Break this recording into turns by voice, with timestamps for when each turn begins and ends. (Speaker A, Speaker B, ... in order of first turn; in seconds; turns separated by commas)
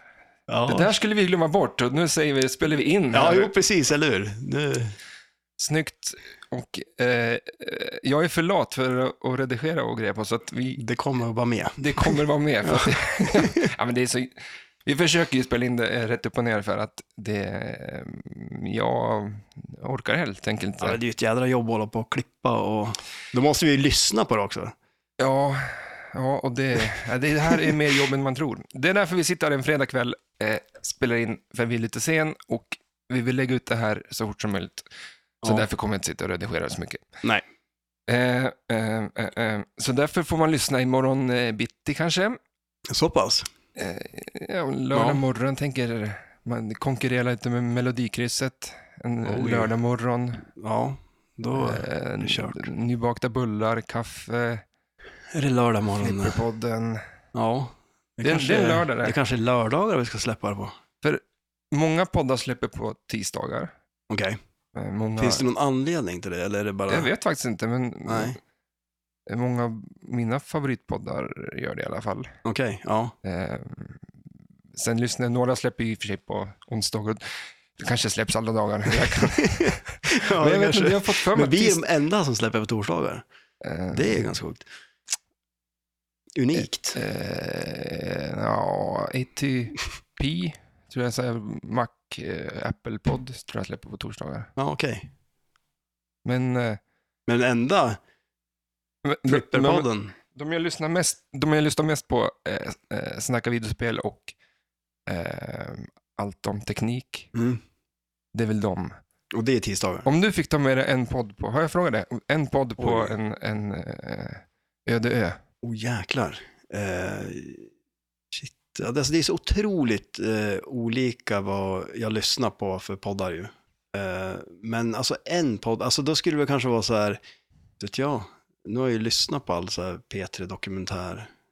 Speaker A: 0.5-0.9, Speaker B: 0.7-3.5, Speaker A: 3.1-4.9, Speaker B: 5.6-10.8, Speaker A: 10.8-13.7, Speaker B: 11.8-21.0, Speaker A: 20.8-24.7, Speaker B: 25.2-34.8, Speaker B: 35.4-37.1, Speaker B: 38.1-42.4, Speaker A: 42.9-43.5, Speaker B: 43.8-50.5, Speaker A: 44.9-45.2, Speaker A: 49.2-49.7, Speaker A: 50.6-52.7, Speaker B: 51.5-54.6, Speaker A: 55.3-56.4, Speaker B: 56.0-57.0, Speaker A: 57.3-60.7, Speaker B: 58.2-59.2, Speaker B: 61.7-63.7, Speaker A: 64.1-64.4, Speaker B: 64.7-65.4, Speaker A: 65.2-67.1, Speaker B: 66.9-68.3, Speaker A: 68.1-68.4, Speaker B: 69.3-72.3, Speaker A: 72.4-73.1, Speaker B: 73.2-74.0, Speaker B: 74.7-77.2, Speaker B: 77.8-81.8, Speaker A: 79.4-83.2, Speaker B: 83.6-84.3, Speaker A: 83.9-84.6, Speaker A: 86.3-87.0, Speaker B: 86.5-94.5, Speaker A: 94.6-95.1, Speaker B: 96.2-96.8, Speaker A: 97.3-98.0, Speaker B: 99.0-104.3, Speaker A: 99.2-100.1, Speaker B: 105.1-107.3, Speaker A: 107.3-107.6, Speaker B: 108.3-108.9, Speaker A: 109.3-110.1, Speaker B: 110.0-115.4, Speaker A: 112.8-113.1, Speaker A: 115.6-117.7, Speaker A: 118.3-127.2, Speaker A: 127.8-131.3